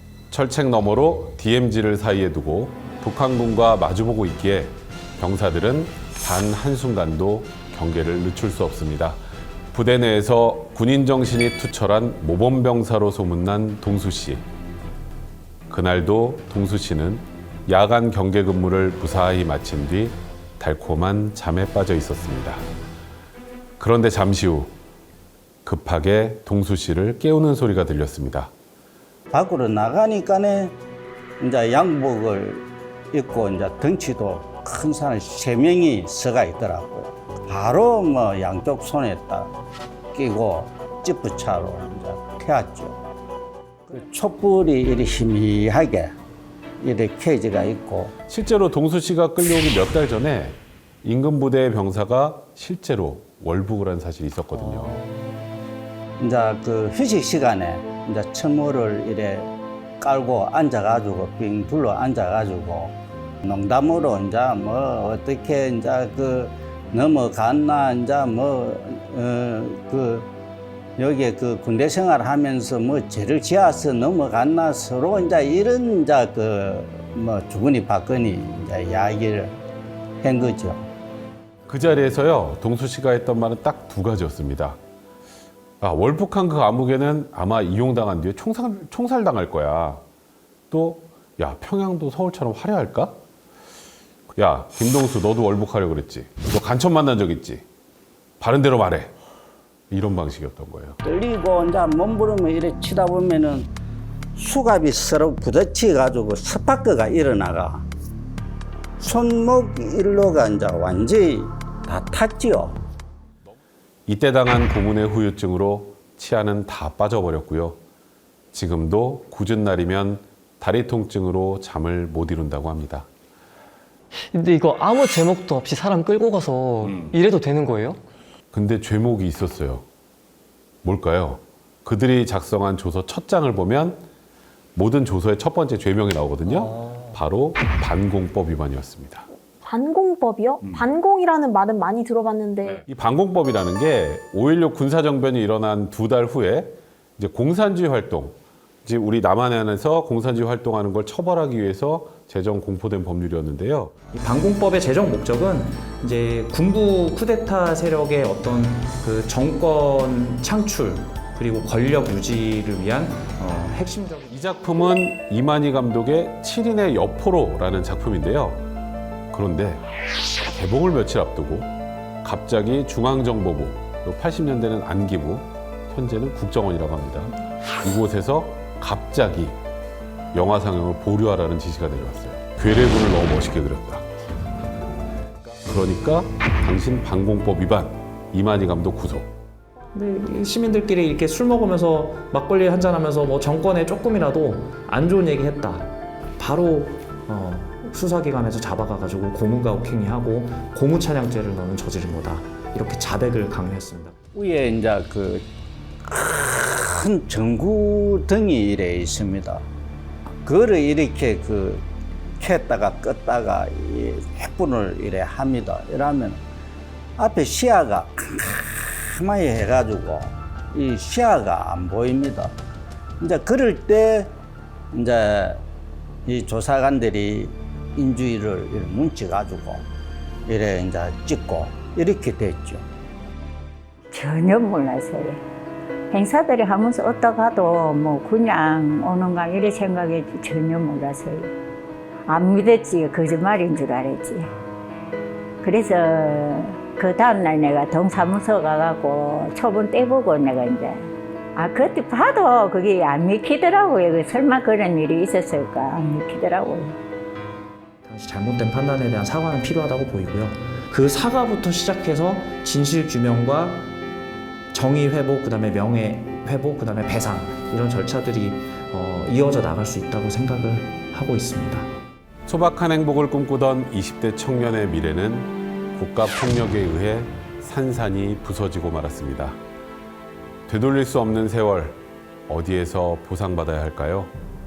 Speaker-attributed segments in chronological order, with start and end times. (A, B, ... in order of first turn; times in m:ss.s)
0:00.3-0:09.2 A
0:09.7-0:14.4 A
0:15.7-0:22.6 A
0:23.8-0:24.7 A
0:25.6-0:28.5 A
0:29.3-0:30.7 B
0:31.4-0:39.5 B
0:40.1-0:43.0 B
0:43.9-0:46.1 B
0:46.8-0:48.1 B
0:48.3-0:55.0 A
0:56.2-0:59.5 B
1:00.0-1:10.3 B
1:11.0-1:19.5 B
1:20.2-1:20.8 B
1:21.7-1:24.8 A
1:25.8-1:30.0 A
1:30.7-1:33.2 A
1:34.4-1:37.6 A
1:38.4-1:39.1 A
1:39.9-1:41.0 A
1:41.0-1:43.7 B
1:44.4-1:47.8 B
1:49.0-1:52.7 B
1:54.0-1:57.8 A
1:58.5-2:03.1 A
2:04.3-2:08.0 C
2:08.5-2:09.8 A
2:10.8-2:14.0 A
2:14.7-2:19.3 A
2:19.6-2:22.8 D
2:22.8-2:33.9 A
2:34.1-2:44.3 E
2:44.3-2:48.6 A
2:49.3-2:49.8 A
2:50.4-2:51.7 A
2:52.2-2:59.6 A
3:00.3-3:04.1 A
3:05.6-3:09.3 A
3:09.9-3:24.1 E
3:24.3-3:25.4 B
3:26.0-3:29.6 B
3:30.4-3:31.8 B
3:32.4-3:36.4 B
3:37.2-3:42.5 B
3:43.2-3:44.3 B
3:44.9-3:45.6 B
3:46.2-3:49.8 B
3:50.5-3:52.8 B
3:54.1-3:55.4 F
3:56.1-4:01.5 F
4:02.3-4:04.5 F
4:05.6-4:17.0 F
4:18.0-4:23.9 E
4:24.7-4:31.9 E
4:32.4-4:39.6 A
4:40.7-4:44.3 A